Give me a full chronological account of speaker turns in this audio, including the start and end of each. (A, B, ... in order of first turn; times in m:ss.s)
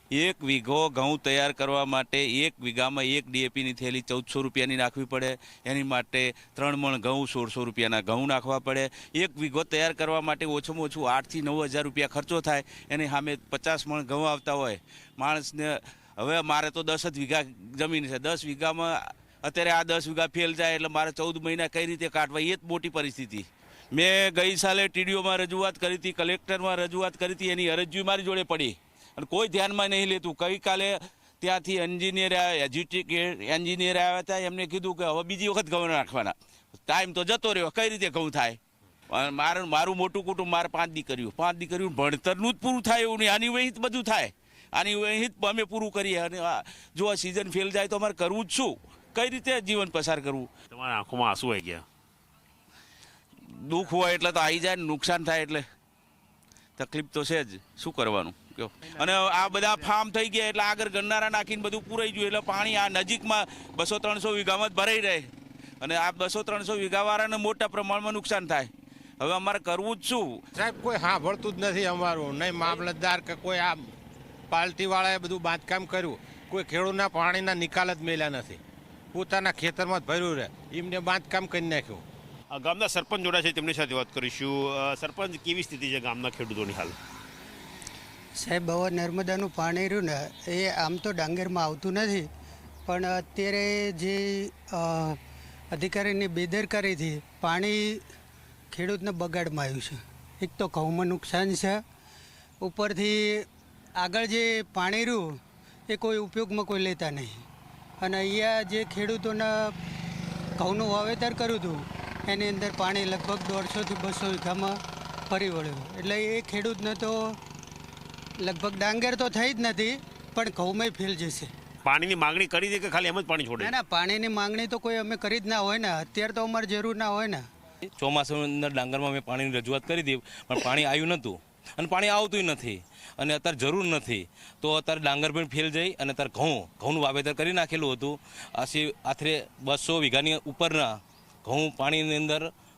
0:00.1-0:36.3 A
0:36.9-0:38.6 A
0:39.1-0:50.5 A
0:50.7-0:51.8 B
0:53.5-0:55.6 A
0:56.8-1:10.4 A
1:10.6-1:13.7 C
1:14.5-1:18.6 C
1:19.2-1:22.0 C
1:22.5-1:27.0 B
1:28.4-1:32.3 D
1:32.9-1:35.2 D
1:35.7-1:38.0 D
1:38.7-1:41.8 D
1:42.6-1:43.4 D
1:44.0-1:45.4 D
1:45.9-1:47.4 D
1:48.0-1:49.7 D
1:50.6-1:54.8 D
1:55.3-1:57.4 D
1:58.4-2:01.5 D
2:01.8-2:03.7 B
2:03.6-2:07.4 D
2:07.9-2:22.5 E